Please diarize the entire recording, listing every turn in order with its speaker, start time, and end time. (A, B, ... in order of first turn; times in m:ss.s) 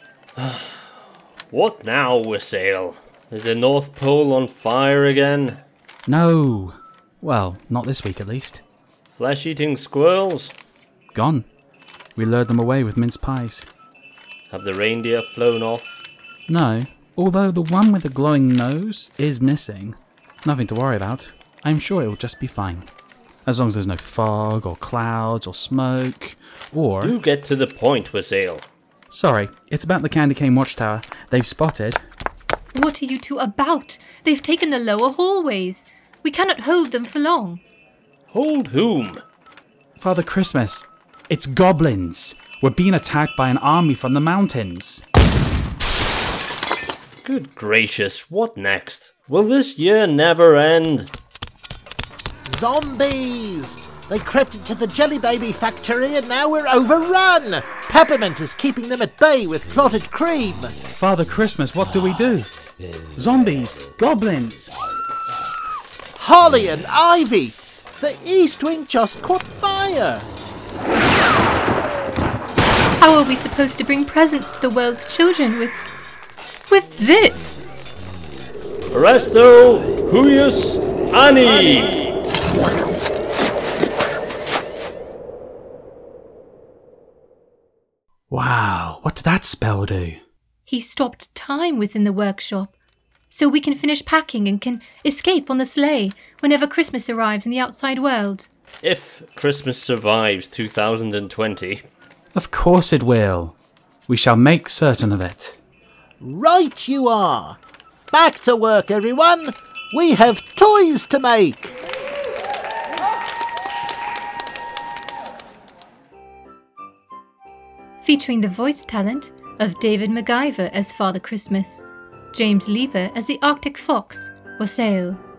0:00.4-0:00.8 A
0:01.5-0:05.6 A
0:06.1-0:08.6 B
0:09.2-0:10.6 A
0:11.1-0:11.5 B
0:12.2-0:13.7 B
0:14.5-0:16.0 A
0:16.5-0:22.9 B
0:23.5-0:27.2 B
0:27.0-0:28.7 A
0:29.1-0:32.0 B
0:32.7-0:37.6 C
0:38.3-0:39.2 A
0:40.0-0:45.0 B
0:47.2-0:51.1 A
0:52.5-1:00.8 D
1:01.0-1:02.5 B
1:03.2-1:04.7 B
1:06.2-1:10.3 D
1:13.0-1:15.8 C
1:16.7-1:17.6 C
1:18.9-1:22.1 A
1:28.3-1:30.2 B
1:30.7-1:32.7 C
1:33.3-1:38.5 C
1:38.8-1:41.8 A
1:42.4-1:43.6 B
1:44.1-1:45.6 B
1:46.2-1:47.6 D
1:48.1-1:51.8 D
1:58.0-2:05.2 C